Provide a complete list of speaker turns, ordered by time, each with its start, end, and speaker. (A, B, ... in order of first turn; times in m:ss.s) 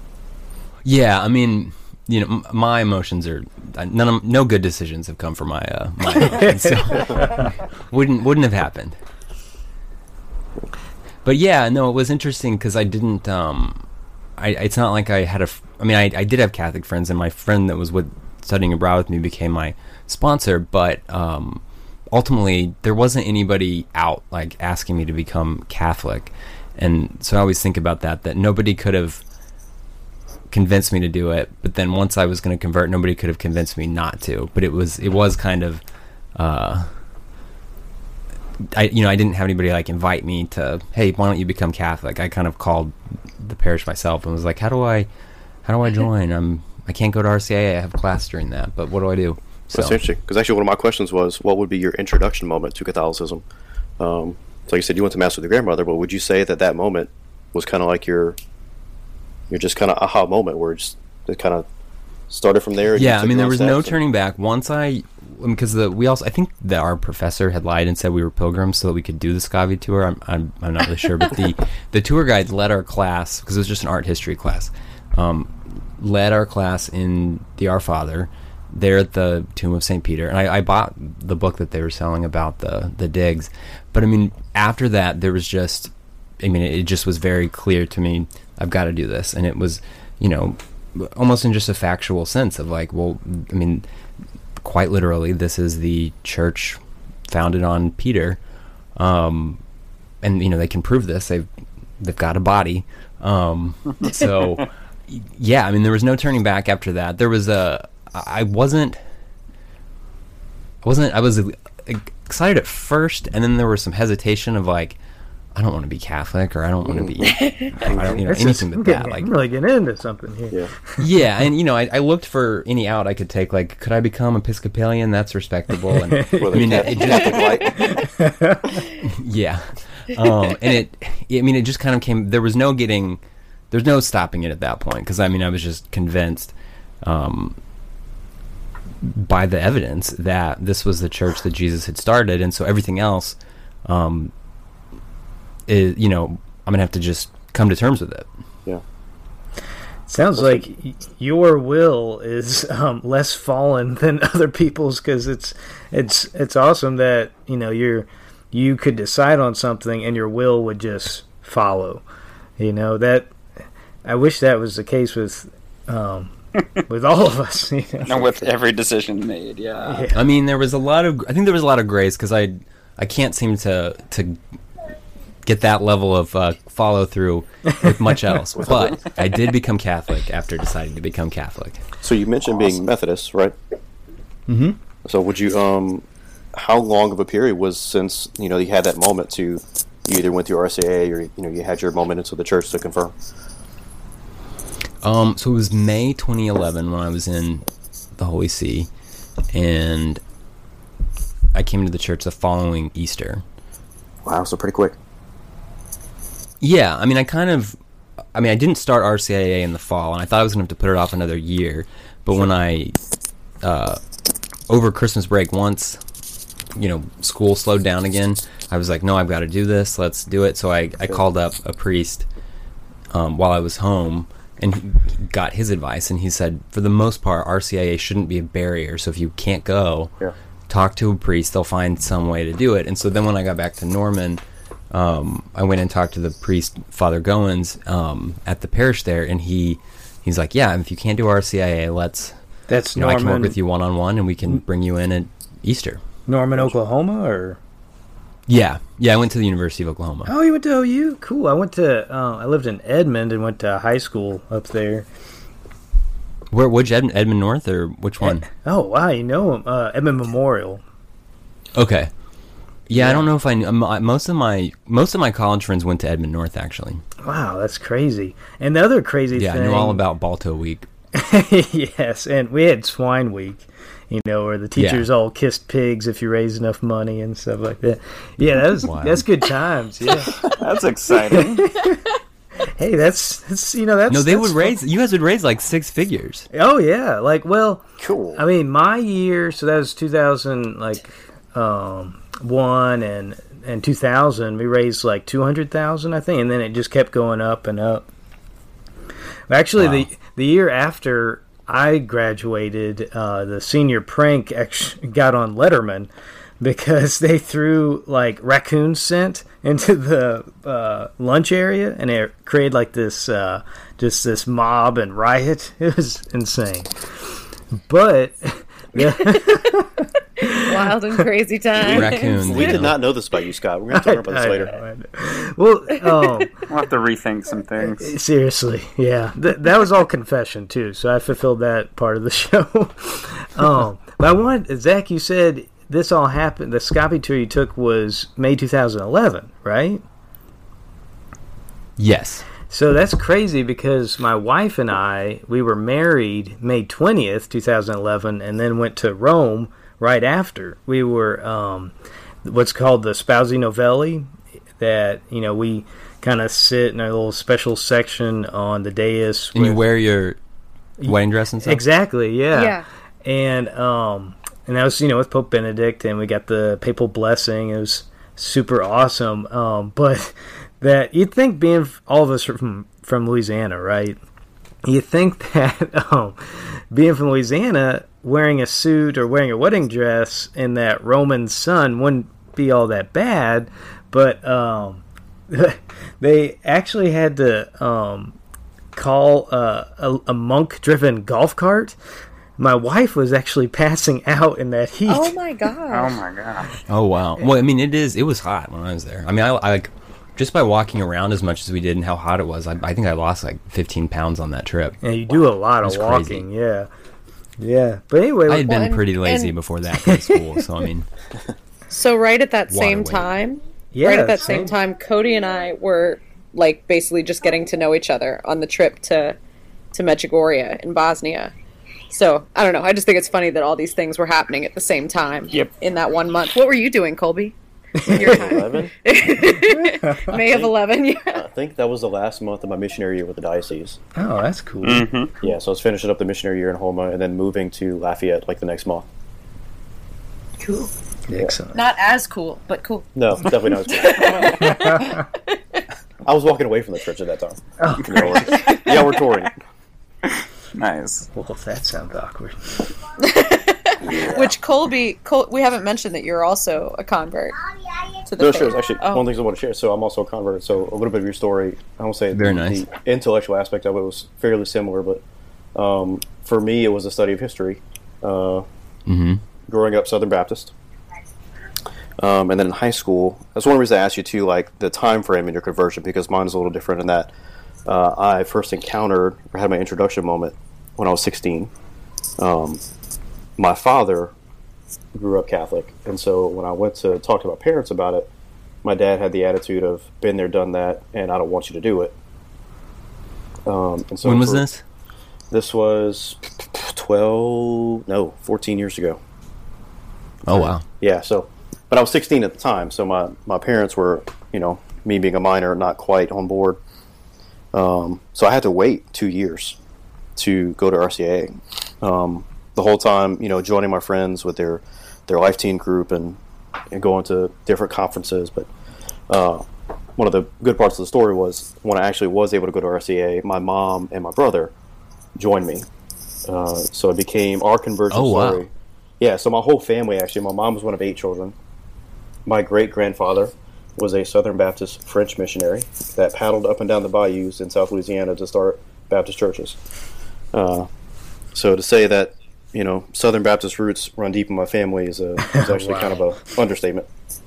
0:00.8-0:07.3 A
0:06.2-0:07.4 B
0:07.9-0:08.9 A
0:11.2-0:13.8 A
0:14.4-0:29.2 A
0:30.5-0:35.8 A
0:36.3-0:36.9 A
0:38.6-0:45.1 A
0:45.6-0:50.0 A
0:49.7-0:53.4 C
0:54.0-0:58.4 C
0:59.5-1:01.6 C
1:02.3-1:03.9 C
1:02.9-1:33.8 A
1:34.6-1:38.4 A
1:39.0-1:39.6 A
1:40.2-1:41.5 A
1:42.0-1:49.0 A
1:50.8-1:55.0 A
1:55.6-1:59.3 A
1:56.9-1:58.2 C
1:57.2-1:57.7 D
1:58.2-2:01.0 B
2:01.0-2:07.6 A
2:05.9-2:06.8 B
2:06.4-2:08.0 C
2:07.6-2:08.8 B
2:09.0-2:17.6 A
2:19.0-2:24.3 A
2:25.7-2:28.3 A
2:30.1-2:42.0 B
2:42.6-2:43.3 B
2:44.0-2:46.3 B
2:46.8-2:48.4 B
2:48.0-2:50.1 E
2:49.8-2:50.2 B
2:50.1-2:54.4 A
2:55.4-3:01.8 A
2:58.5-2:59.1 C
3:02.0-3:03.5 C
3:04.5-3:04.8 B
3:05.0-3:13.1 C
3:15.0-3:17.6 A
3:18.2-3:18.9 A
3:19.5-3:20.2 A
3:21.5-3:23.4 A
3:24.2-3:25.0 C
3:26.6-3:27.8 A
3:28.3-3:32.9 A
3:33.6-3:34.0 A
3:34.7-3:36.0 A
3:36.7-3:42.2 A
3:43.1-3:50.1 A
3:50.7-4:02.3 A
4:02.7-4:03.6 B
4:02.9-4:06.0 A
4:06.3-4:07.6 B
4:08.5-4:10.3 A
4:10.2-4:15.1 B
4:16.5-4:18.4 A
4:18.2-4:20.8 B
4:21.7-4:22.1 A
4:22.9-4:27.0 A
4:22.9-4:23.3 B
4:27.2-4:30.0 B
4:29.3-4:30.9 A
4:31.1-4:40.4 B
4:34.8-4:35.1 A
4:38.8-4:39.2 A
4:40.5-4:41.6 E
4:41.3-4:42.0 B
4:42.7-4:44.7 B
4:44.1-4:46.4 A
4:46.5-4:47.8 B
4:48.0-4:48.4 C
4:48.4-4:58.0 B
4:59.5-5:06.1 B
4:59.8-5:00.1 A
5:06.6-5:17.1 B
5:17.9-5:20.7 B
5:19.0-5:19.7 D
5:20.5-5:22.9 D
5:21.8-5:23.0 A
5:21.8-5:24.8 C
5:23.9-5:26.5 B
5:26.7-5:28.1 E
5:28.0-5:40.0 B
5:42.0-5:42.4 A
5:42.7-5:51.9 B
5:52.4-5:59.8 B
5:59.5-6:00.4 A
6:01.0-6:14.2 B
6:01.0-6:01.8 A
6:02.5-6:02.8 D
6:14.8-6:28.4 B
6:28.9-6:32.0 B
6:32.6-6:35.4 B
6:35.1-6:36.2 D
6:35.9-6:36.8 E
6:36.9-6:45.0 A
6:45.0-6:46.9 B
6:45.8-6:46.4 A
6:47.6-6:48.8 B
6:48.5-6:51.1 A
6:48.6-6:49.5 D
6:51.9-6:59.4 D
6:52.7-6:53.3 A
6:53.9-6:54.7 B
6:59.9-7:01.5 D
7:02.1-7:11.4 D
7:08.0-7:08.4 B
7:08.0-7:08.9 C
7:10.4-7:10.7 C
7:11.3-7:14.0 C
7:14.1-7:15.0 B
7:14.8-7:15.3 E
7:15.4-7:19.0 C
7:20.6-7:20.9 D
7:21.3-7:21.8 B
7:21.7-7:23.1 D
7:23.2-7:24.8 C
7:23.7-7:25.8 D
7:24.7-7:25.1 B
7:26.2-7:29.5 C
7:27.8-7:28.4 B
7:28.1-7:29.4 E
7:28.5-7:29.0 D
7:30.2-7:31.3 E
7:31.3-7:32.9 B
7:33.2-7:37.6 D
7:34.0-7:34.5 C
7:38.2-7:39.2 D
7:38.4-7:45.2 C
7:42.3-7:42.8 A
7:45.7-7:48.6 C
7:49.1-7:49.4 A
7:49.7-7:50.7 C
7:52.2-7:57.3 C
7:57.8-8:01.7 C
8:02.4-8:02.8 C
8:03.6-8:04.3 C
8:05.1-8:08.3 C
8:08.8-8:12.1 C
8:13.6-8:14.6 C
8:14.2-8:14.8 A
8:15.5-8:19.2 C
8:20.4-8:20.8 A
8:20.5-8:26.8 C
8:27.7-8:29.8 C
8:30.4-8:36.4 C
8:36.9-8:38.7 C
8:39.3-8:44.7 C
8:45.4-8:45.8 C
8:46.4-8:48.7 C
8:48.1-8:48.7 A
8:49.2-8:51.5 C
8:52.4-8:59.8 C
9:00.5-9:00.9 C
9:01.5-9:07.1 C
9:05.4-9:06.2 B